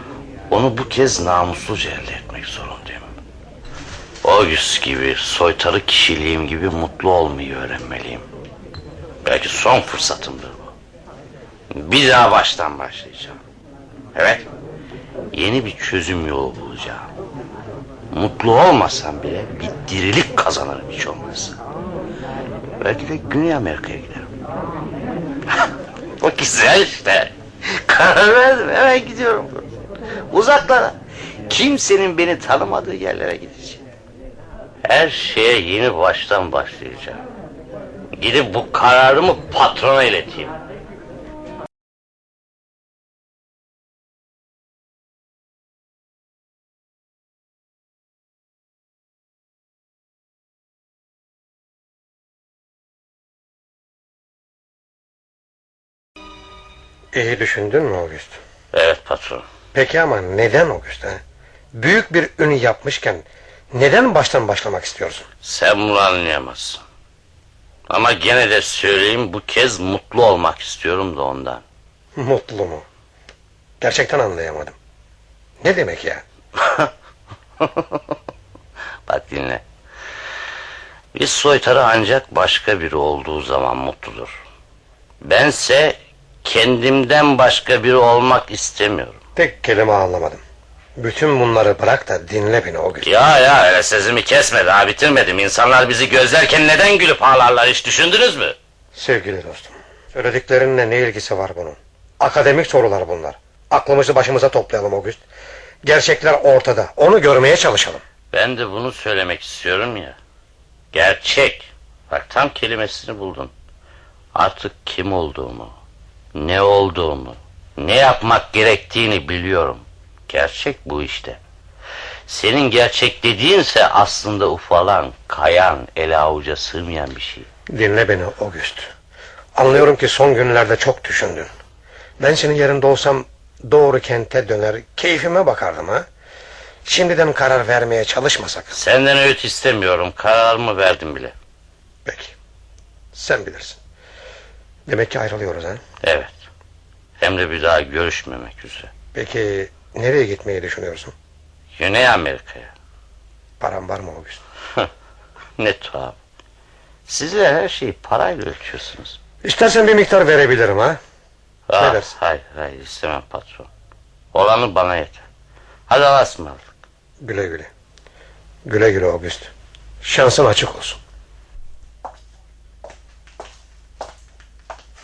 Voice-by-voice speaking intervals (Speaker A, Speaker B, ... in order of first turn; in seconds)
Speaker A: 0.5-3.1, 4.2-8.2, 9.2-10.7, 11.7-13.4, 14.1-14.5, 15.3-17.1, 18.1-21.6, 22.8-24.3, 26.2-29.6, 30.3-30.9, 31.5-33.8, 34.8-37.2, 38.2-40.5, 58.7-59.4, 65.4-66.8, 67.9-71.6, 76.6-76.9, 77.6-78.0, 79.1-79.6, 81.1-84.4, 85.2-89.2, 93.0-98.5, 108.3-110.2, 110.9-113.5, 114.3-115.7, 116.3-121.4, 122.3-127.5, 138.7-141.3, 146.0-146.4, 147.2-148.9, 151.8-152.7, 155.6-156.2, 157.1-159.2, 161.7-163.7, 164.3-165.2, 165.9-166.6
Speaker B: 57.1-58.4, 59.7-61.2, 61.7-65.2, 72.2-72.8, 73.8-74.7, 75.6-76.2, 89.3-90.4, 91.0-93.1, 98.9-105.2, 105.8-108.0, 127.7-128.9, 129.5-131.5, 132.2-136.0, 136.8-138.7, 142.1-142.3, 143.1-143.8, 144.9-145.8, 149.1-151.1, 153.6-154.4, 159.4-161.0, 161.7-162.1, 167.2-167.7, 168.6-169.5, 170.0-171.0